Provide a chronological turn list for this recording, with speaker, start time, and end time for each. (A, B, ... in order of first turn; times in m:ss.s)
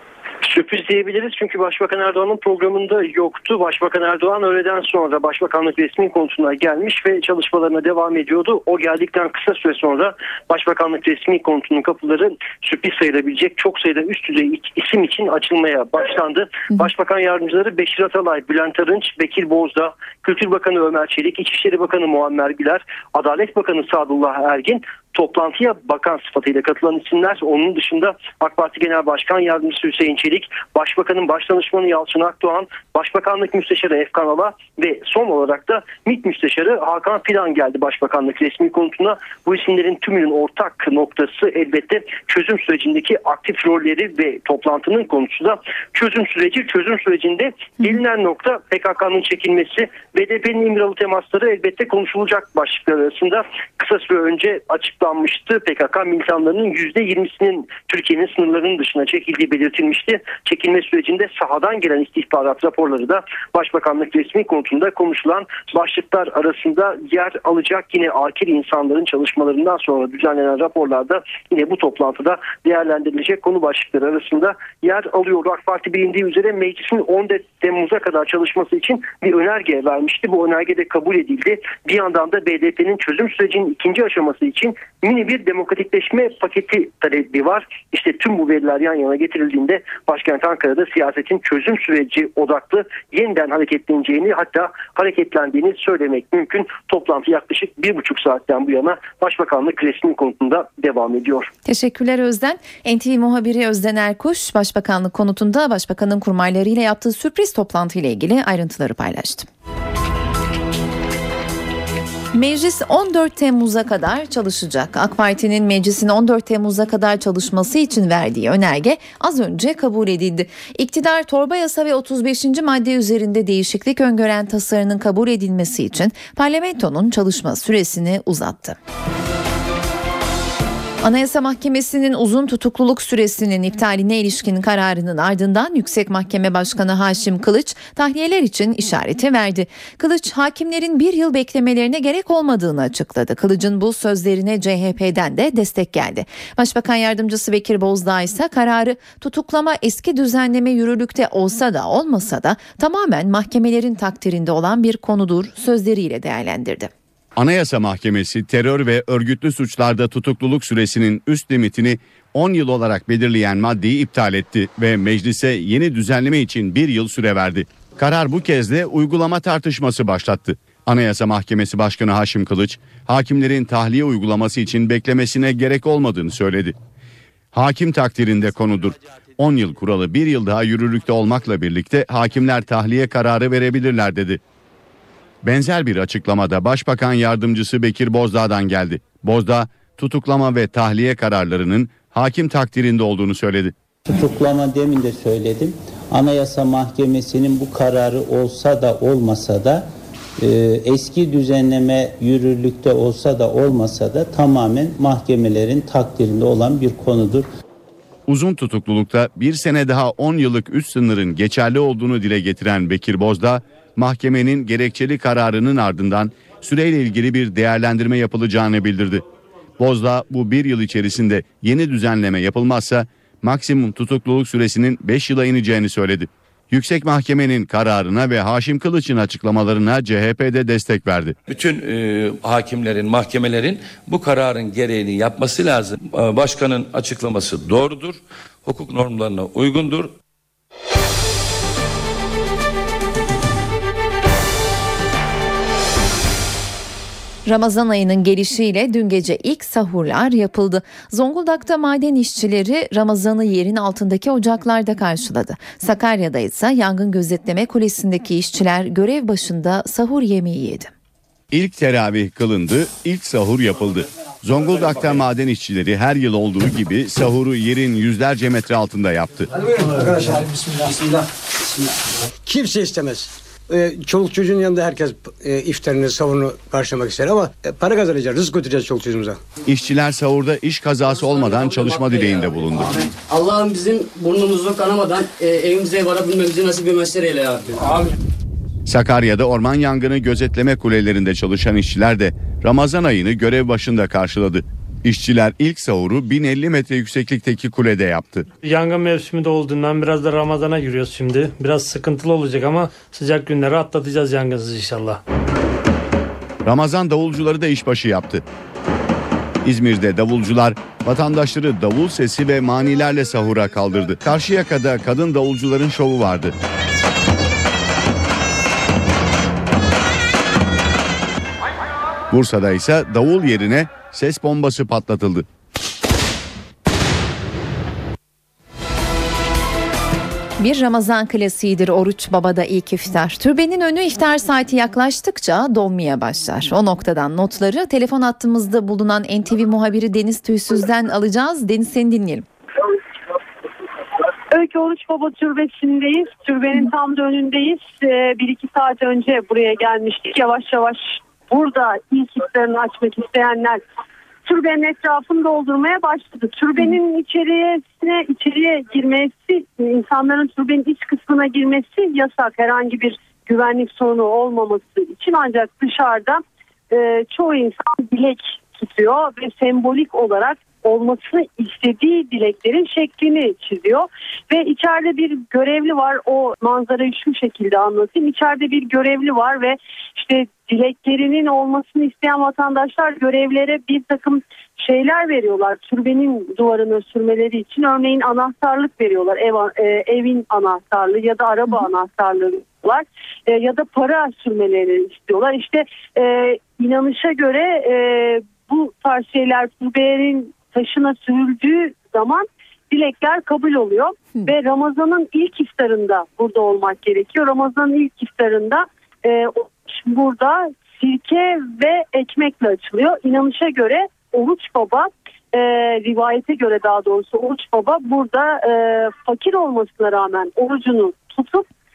0:00.4-1:41.5 A
1:41.6-1:49.5 B
1:52.3-2:08.8 B
2:11.0-2:36.9 B
2:37.4-2:56.8 C
2:57.5-3:04.4 C
3:05.4-3:13.7 C
3:14.1-3:19.8 D
3:20.4-3:27.5 D
3:28.3-3:39.2 C
3:39.8-3:51.3 C
3:51.5-4:00.1 E
4:07.4-4:20.9 B
4:21.5-4:29.5 C
4:29.5-4:31.2 F
4:32.4-4:39.4 F
4:39.6-4:43.1 C
4:41.2-4:48.1 G
4:48.8-4:58.4 C
4:58.6-5:05.2 H
5:06.6-5:08.4 C
5:09.6-5:16.5 C
5:22.3-5:25.4 C
5:30.6-5:42.4 B
5:44.5-5:53.8 I
5:54.4-7:01.6 I